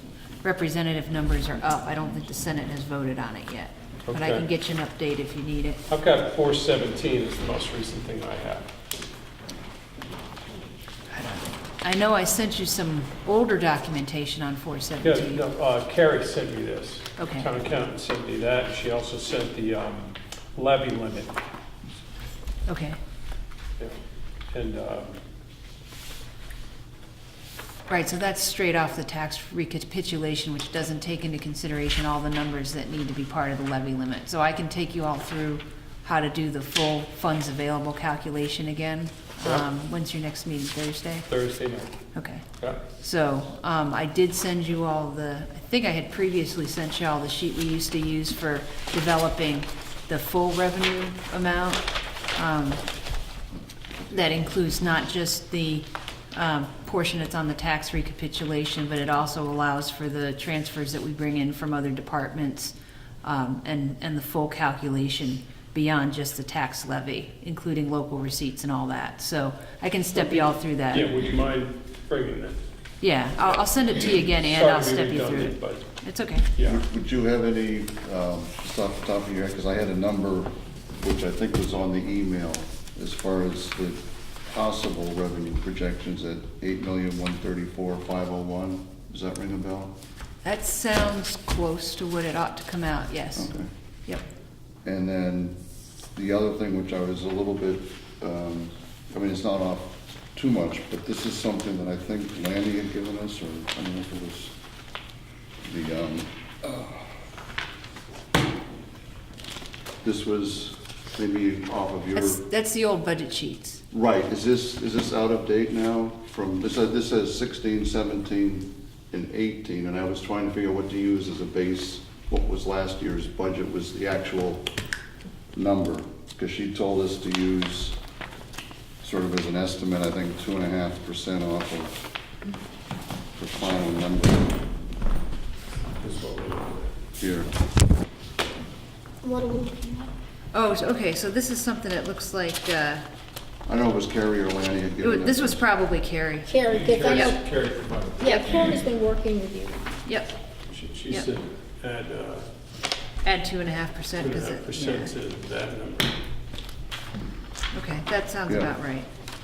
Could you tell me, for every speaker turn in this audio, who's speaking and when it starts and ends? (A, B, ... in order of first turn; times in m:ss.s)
0:00.4-0:05.8 A
0:04.1-0:04.5 B
0:05.9-0:08.7 B
0:11.1-0:15.4 A
0:15.0-0:21.4 B
0:17.2-0:17.5 A
0:22.7-0:23.0 A
0:24.5-0:25.2 B
0:27.9-0:41.3 A
0:41.3-0:42.0 B
0:42.1-0:51.8 A
0:52.4-0:52.8 A
0:54.1-1:11.1 A
1:10.1-1:12.6 B
1:13.0-1:16.5 A
1:13.4-1:15.9 B
1:16.6-1:16.8 B
1:16.6-1:30.0 C
1:30.4-1:33.5 A
1:33.3-1:33.7 C
1:34.8-1:35.6 C
1:36.2-1:44.5 C
1:45.6-1:47.1 C
1:50.0-1:52.4 C
1:52.1-1:53.8 A
1:53.9-2:04.6 C
2:05.5-2:08.0 C
2:09.0-2:12.0 C
2:13.4-2:14.6 C
2:16.0-2:16.9 B
2:17.2-2:17.5 C
2:19.2-2:20.1 D
2:20.5-2:23.0 A
2:23.7-2:25.6 C
2:25.0-2:27.4 A
2:26.4-2:27.5 D
2:26.7-2:28.8 B
2:28.2-2:30.0 D
2:28.2-2:28.6 A
2:30.1-2:30.4 A
2:30.7-2:32.4 B
2:33.2-2:35.1 A
2:34.2-2:36.2 B
2:37.7-2:39.1 A